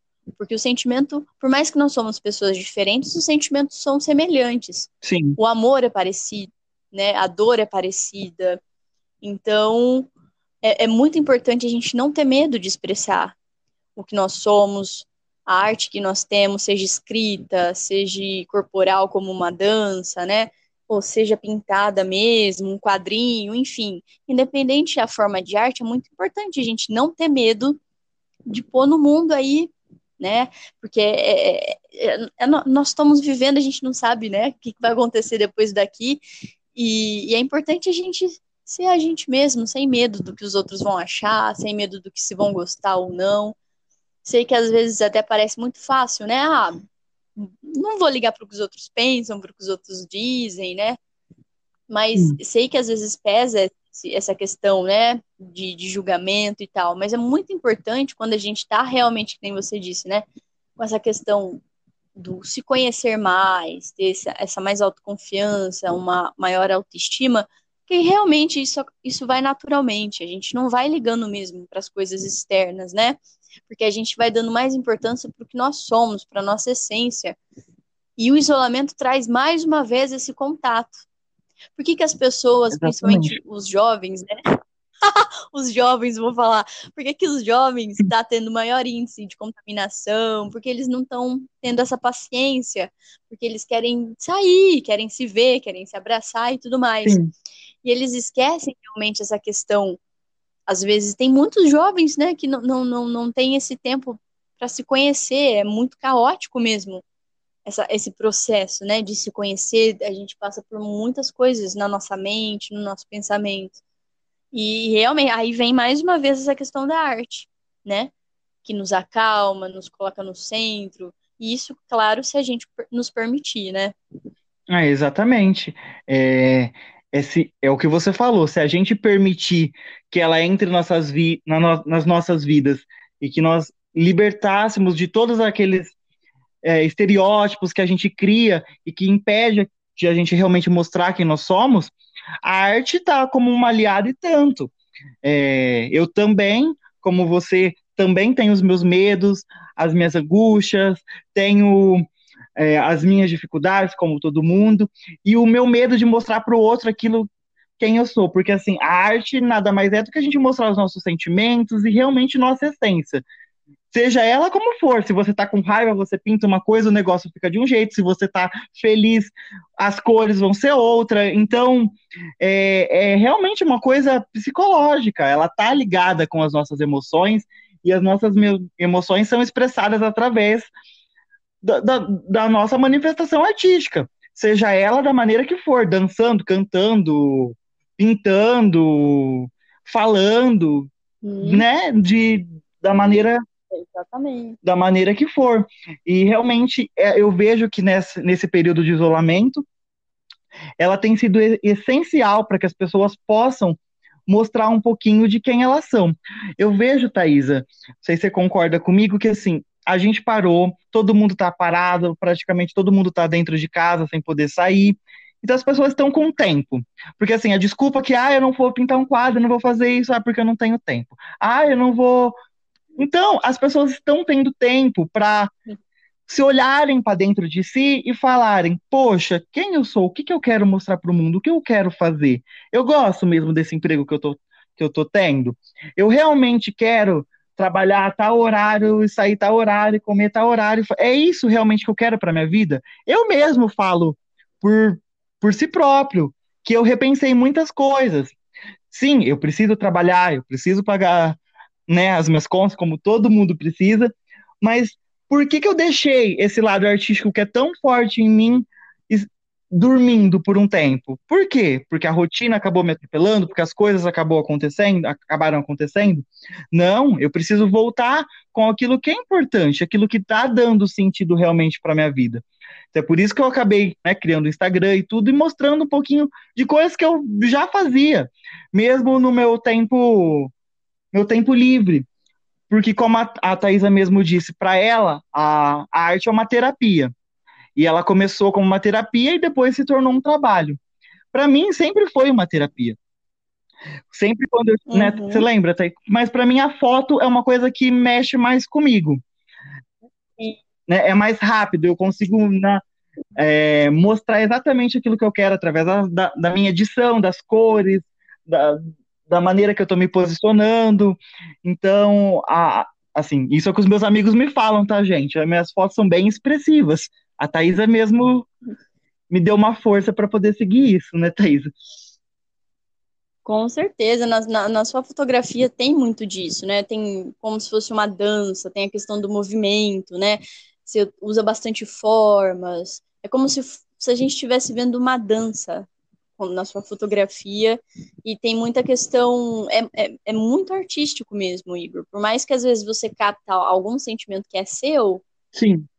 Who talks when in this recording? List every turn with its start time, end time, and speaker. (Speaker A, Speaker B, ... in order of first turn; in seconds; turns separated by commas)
Speaker A: 0.4-8.6, Speaker B: 5.0-5.4, Speaker A: 9.2-10.1, Speaker A: 10.6-13.3, Speaker A: 14.0-27.8, Speaker A: 28.5-36.2, Speaker A: 36.8-43.6, Speaker A: 44.2-46.8, Speaker A: 47.4-51.0, Speaker A: 51.9-60.2, Speaker A: 60.8-61.6, Speaker A: 62.2-77.4, Speaker A: 78.2-81.0, Speaker A: 81.8-84.3, Speaker B: 82.7-83.4, Speaker A: 85.0-97.2, Speaker B: 97.0-97.3, Speaker A: 97.8-100.0, Speaker A: 100.7-107.0, Speaker A: 107.7-113.8, Speaker A: 114.5-118.1, Speaker A: 118.6-124.0, Speaker B: 124.7-135.9, Speaker B: 136.6-144.7, Speaker B: 145.2-152.1, Speaker B: 152.6-157.3, Speaker B: 157.8-163.2, Speaker B: 163.9-180.7, Speaker B: 181.6-190.9, Speaker A: 191.2-191.7, Speaker B: 191.4-193.4, Speaker A: 193.7-194.6, Speaker B: 194.6-199.6, Speaker B: 200.8-222.3, Speaker B: 223.0-225.5, Speaker B: 226.3-248.3, Speaker B: 248.9-280.5, Speaker B: 281.1-282.1, Speaker B: 282.7-287.1, Speaker B: 287.8-290.8, Speaker B: 291.3-293.0, Speaker B: 294.1-299.2, Speaker A: 294.9-295.5, Speaker B: 300.9-302.8, Speaker B: 303.4-318.5, Speaker B: 319.3-321.7, Speaker A: 323.4-345.2, Speaker B: 345.5-345.9